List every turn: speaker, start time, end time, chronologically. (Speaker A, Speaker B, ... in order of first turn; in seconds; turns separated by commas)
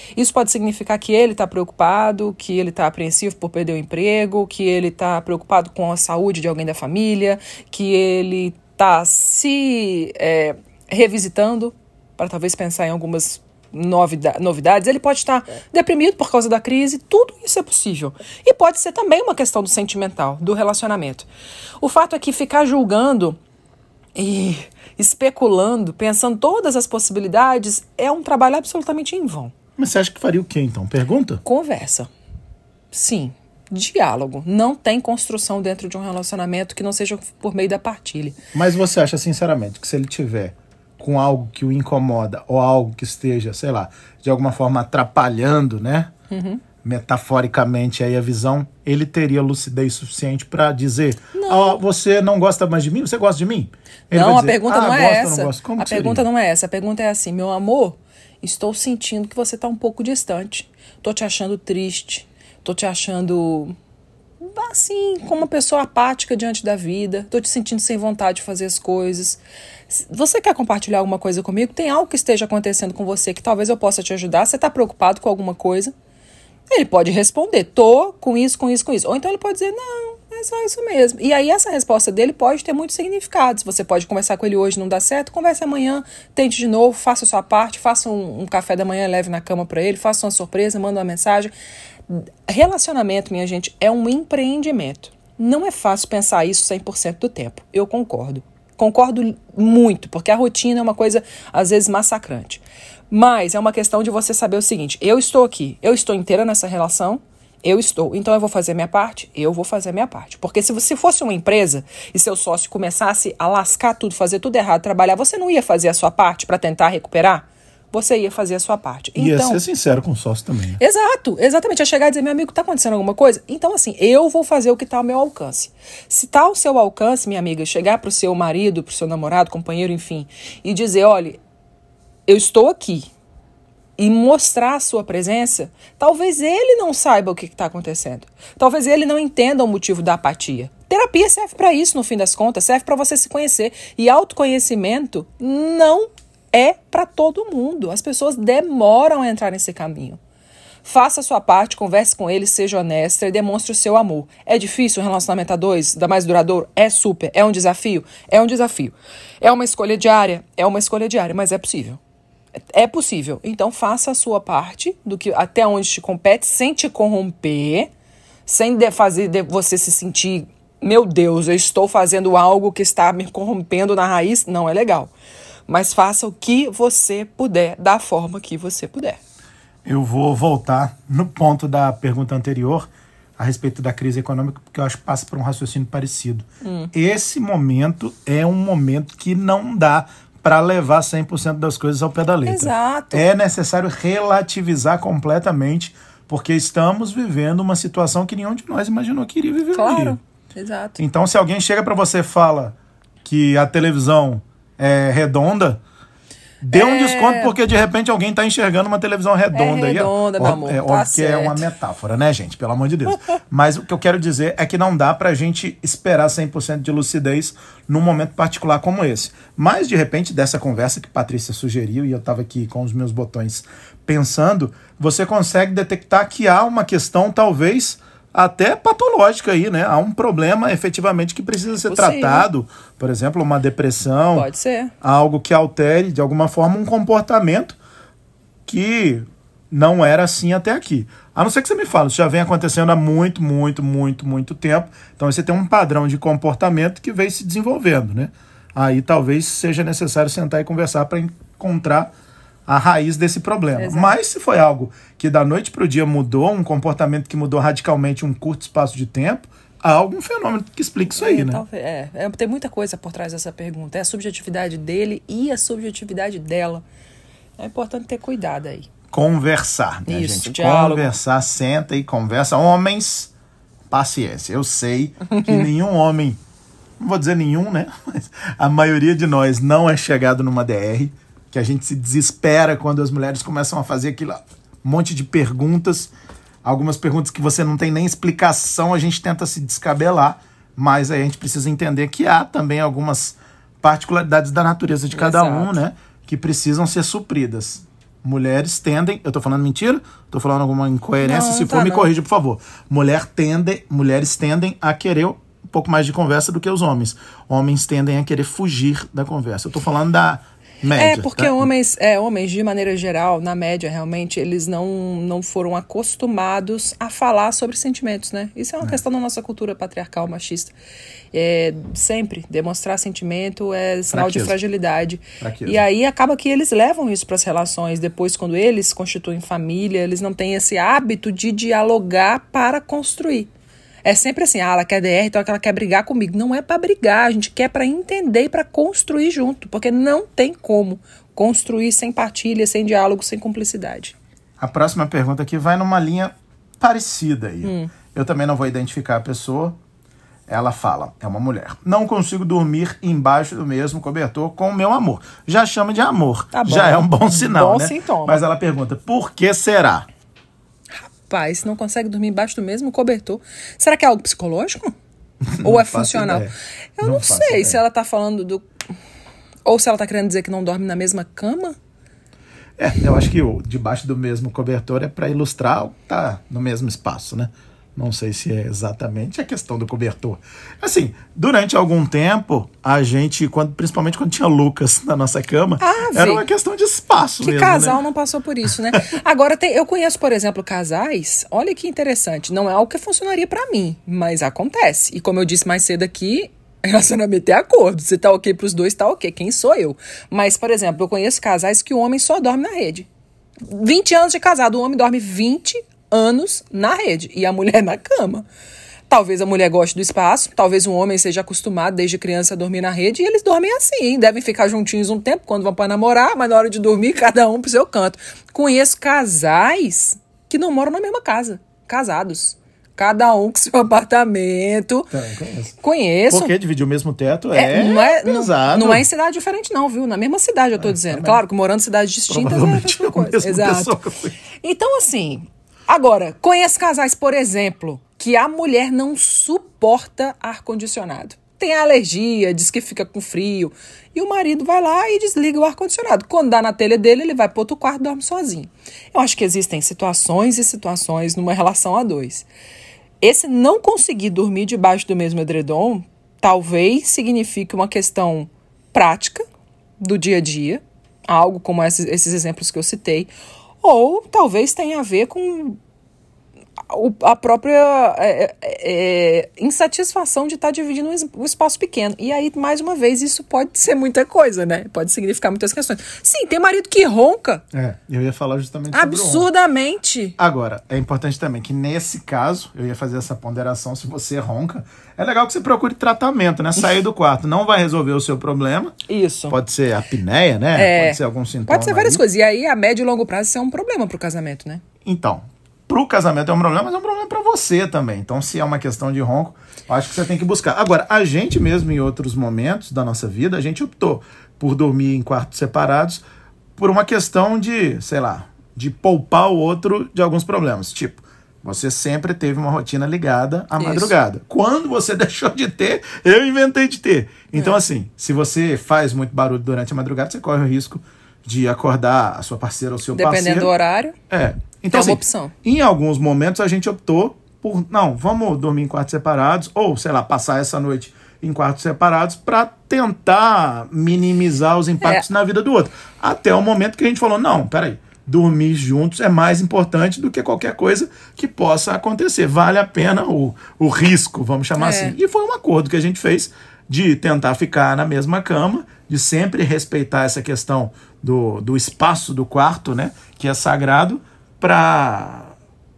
Speaker A: 0.1-21.3, Speaker A: 21.8-23.4, Speaker A: 24.1-29.5, Speaker B: 29.8-31.4, Speaker A: 31.4-32.1, Speaker A: 32.9-38.4, Speaker B: 38.5-46.1, Speaker A: 46.3-46.6, Speaker B: 46.8-56.2, Speaker A: 51.3-51.8, Speaker A: 54.1-63.7, Speaker A: 64.4-75.9, Speaker A: 76.7-91.5, Speaker A: 92.1-119.6, Speaker B: 119.2-120.8, Speaker A: 120.8-131.4, Speaker A: 132.3-133.1, Speaker A: 134.0-150.2, Speaker A: 150.8-162.0, Speaker A: 162.7-167.9, Speaker A: 168.5-175.1, Speaker A: 175.7-179.2, Speaker B: 179.8-200.2, Speaker A: 186.6-186.9, Speaker A: 192.4-193.2, Speaker A: 199.7-201.0, Speaker B: 201.0-205.8, Speaker B: 206.6-234.5, Speaker A: 206.7-207.5, Speaker A: 209.5-211.7, Speaker A: 231.8-232.5, Speaker A: 234.3-234.9, Speaker B: 235.0-237.8, Speaker B: 238.7-252.1, Speaker B: 252.7-261.6, Speaker A: 253.8-254.2, Speaker A: 261.1-266.8, Speaker A: 267.6-268.9, Speaker B: 269.1-273.3, Speaker A: 270.1-271.1, Speaker B: 273.9-276.4, Speaker A: 275.3-275.6, Speaker B: 277.0-286.1, Speaker B: 286.6-311.7, Speaker A: 295.1-295.8, Speaker A: 301.2-302.1, Speaker A: 310.9-320.7, Speaker A: 321.3-333.5, Speaker B: 324.1-324.6, Speaker B: 325.4-325.8, Speaker A: 334.0-344.1, Speaker B: 344.6-349.8, Speaker A: 347.6-347.9, Speaker B: 350.5-360.1, Speaker A: 356.5-358.4, Speaker A: 360.9-364.9, Speaker B: 365.5-367.8, Speaker A: 365.6-366.5, Speaker A: 367.0-368.6, Speaker A: 369.6-371.7, Speaker B: 372.8-388.0, Speaker A: 385.8-386.4, Speaker A: 387.4-403.1, Speaker A: 403.7-408.4, Speaker A: 409.1-425.1, Speaker B: 425.1-425.7, Speaker A: 425.8-426.5, Speaker B: 426.3-429.1, Speaker A: 427.5-434.0, Speaker B: 430.8-431.4, Speaker B: 432.3-434.4, Speaker A: 434.6-452.5, Speaker A: 453.2-459.4, Speaker A: 460.0-465.8, Speaker A: 466.9-477.6, Speaker B: 477.7-479.5, Speaker A: 478.9-480.4, Speaker B: 480.4-488.9, Speaker A: 489.1-489.6, Speaker B: 489.5-492.2, Speaker A: 490.7-494.8, Speaker B: 495.0-506.2, Speaker B: 506.8-523.7, Speaker A: 513.8-514.1, Speaker A: 517.5-517.8, Speaker A: 523.1-524.2, Speaker B: 524.3-555.5, Speaker A: 524.9-525.5, Speaker A: 544.8-545.1